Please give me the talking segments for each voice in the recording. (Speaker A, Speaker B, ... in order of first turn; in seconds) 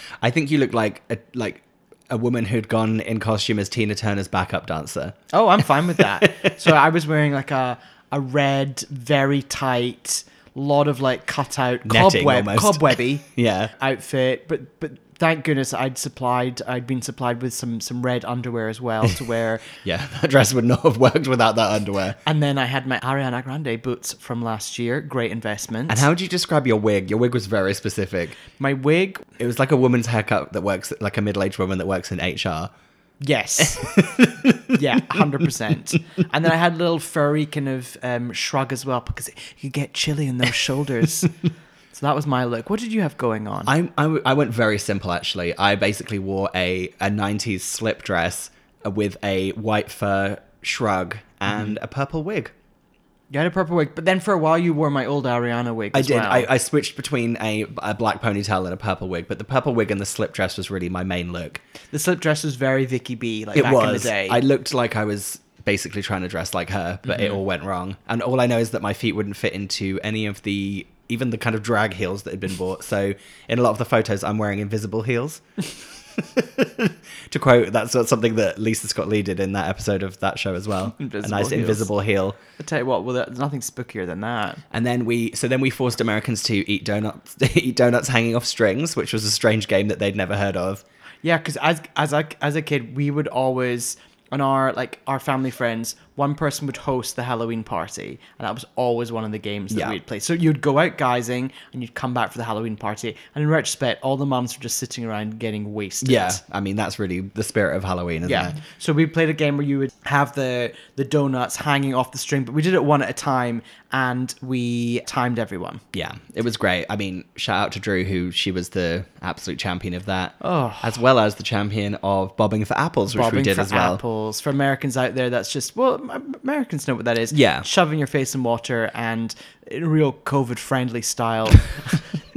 Speaker A: 0.2-5.2, 6.0-6.5, 11.8-13.7, 19.7-22.2, 25.9-28.4, 29.4-32.7, 33.7-34.7, 43.6-52.5, 55.9-61.6, 63.5-82.4, 84.7-90.8, 99.7-100.0, 106.0-108.5, 115.9-124.0, 127.3-127.7
Speaker B: 5.3-13.2, 13.8-19.7, 22.2-26.1, 28.6-29.3, 33.2-33.9, 34.7-41.3, 41.9-43.7, 53.3-56.5, 61.9-64.4, 67.1-67.4, 81.0-81.9, 82.6-84.6, 91.2-106.4, 108.2-115.8, 120.4-121.0, 123.1-132.0